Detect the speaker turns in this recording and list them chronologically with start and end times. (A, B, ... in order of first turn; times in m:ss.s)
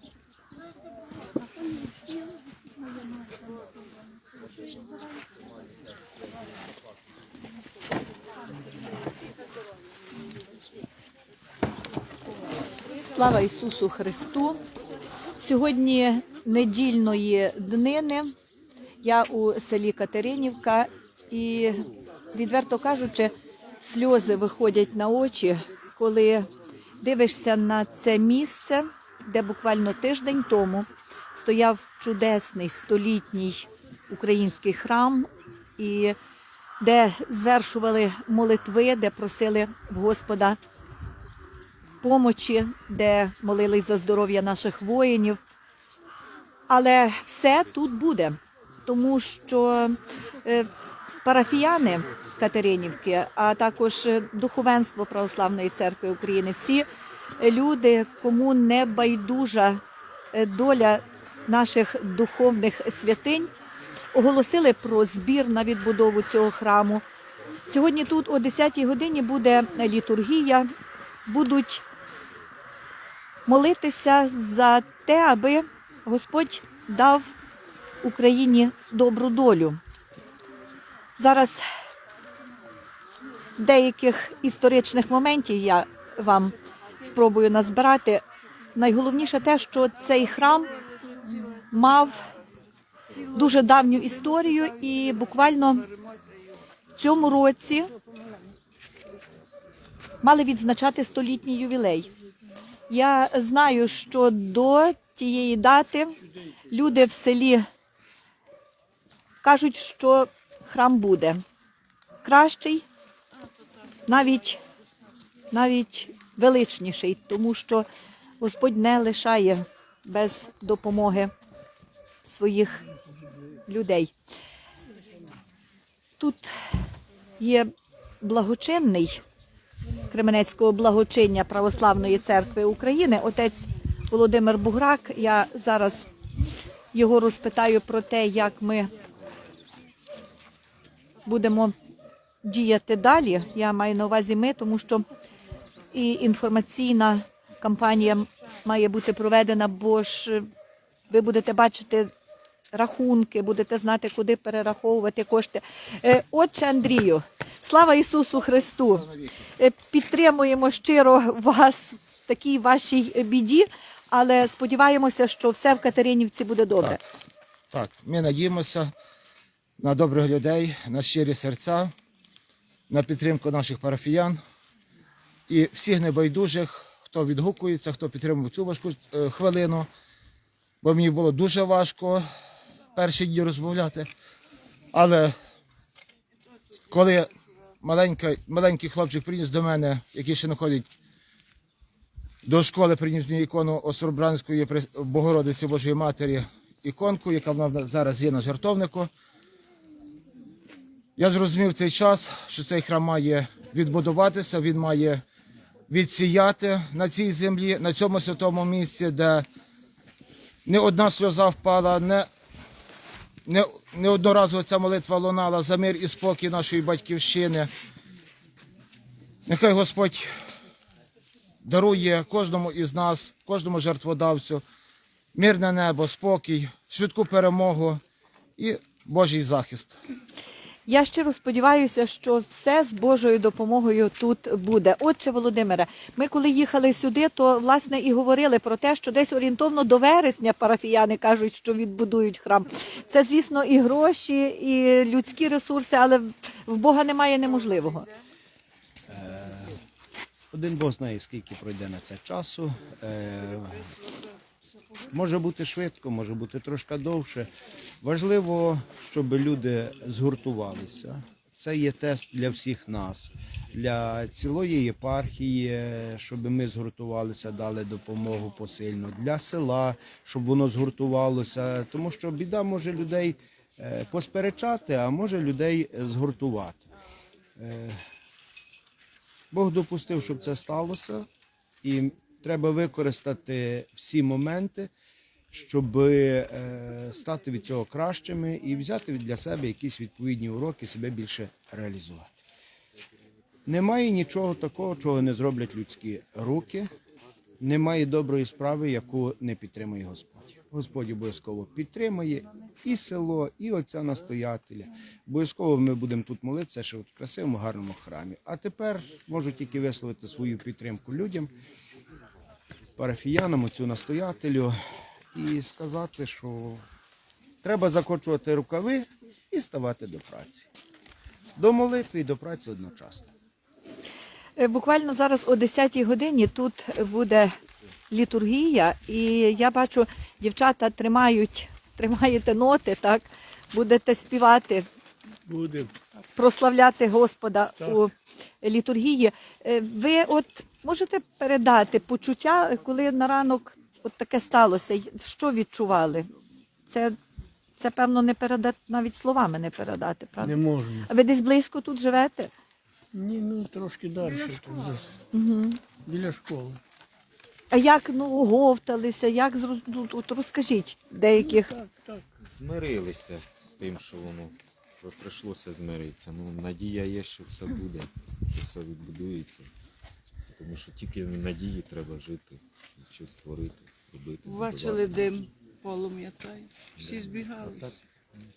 0:13.0-0:14.6 A
0:15.4-0:18.3 A
0:19.0-0:21.8 A
0:22.3-0:26.5 A
0:27.0-0:36.2 A
0:36.8-0:40.6 A
0:42.0-0:45.4 A
0:46.7-0:50.7 A
0:51.2-0:56.9 A
0:57.4-0:59.8 A
1:00.3-1:03.5 A
1:04.1-1:07.0 A
1:07.7-1:10.7 A
1:11.3-1:11.8 A
1:13.5-1:17.3 A
1:18.0-1:19.8 A
1:21.2-1:21.6 A
1:23.6-1:28.2 A
1:28.8-1:30.7 A
1:31.3-1:31.6 B
1:31.7-1:32.2 A
1:33.3-1:34.9 B
1:33.3-1:35.9 A
1:37.0-1:37.9 A
1:40.2-1:42.1 A
1:42.9-1:46.2 A
1:46.7-1:47.7 A
1:49.4-1:51.4 A
1:52.2-1:52.8 A
1:54.1-1:54.6 A
1:55.5-1:57.9 A
1:58.4-2:01.3 A
2:02.3-2:02.8 A
2:03.7-2:04.1 A
2:06.2-2:06.5 A
2:07.4-2:07.7 A
2:08.2-2:09.2 A
2:10.1-2:16.1 A
2:16.9-2:18.9 A
2:21.2-2:21.8 A
2:22.4-2:25.1 A
2:25.9-2:30.4 A
2:31.1-2:32.1 A
2:32.7-2:47.0 A
2:47.7-2:48.9 C
2:49.8-2:51.9 C
2:52.9-2:54.4 C
2:55.5-2:59.9 C
3:00.8-3:02.2 C
3:03.0-3:04.1 C
3:04.9-3:05.4 C
3:06.9-3:07.3 C
3:07.8-3:10.9 C
3:12.5-3:19.1 C
3:21.2-3:25.2 C
3:25.9-3:29.5 C
3:30.7-3:32.3 C
3:33.5-3:37.7 C
3:39.5-3:40.3 C
3:41.6-3:44.6 C
3:45.4-3:48.0 C
3:48.6-3:50.0 C
3:50.9-4:08.1 A
4:09.1-4:09.8 D
4:10.5-4:13.8 D
4:15.1-4:17.5 D
4:18.0-4:36.9 D
4:37.6-4:38.0 D
4:39.5-4:41.3 D
4:41.8-4:44.9 D
4:45.5-4:52.3 D
4:53.7-4:56.9 D
4:57.6-5:11.5 D
5:13.0-5:14.8 D
5:15.3-5:16.8 D
5:17.6-5:20.7 D
5:21.6-5:23.3 D
5:24.6-5:27.5 A
5:28.1-5:34.9 A
5:35.5-5:35.9 E
5:36.4-5:46.3 A
5:46.9-5:47.2 A
5:47.8-5:52.5 A
5:50.4-5:51.1 E
5:53.1-5:55.0 E
5:54.2-5:55.0 B
5:55.3-5:55.8 A
5:56.0-5:56.8 E
5:57.7-6:01.7 A
6:01.3-6:02.2 E
6:02.4-6:09.7 F
6:10.6-6:15.5 F
6:14.5-6:18.0 B
6:17.0-6:18.0 F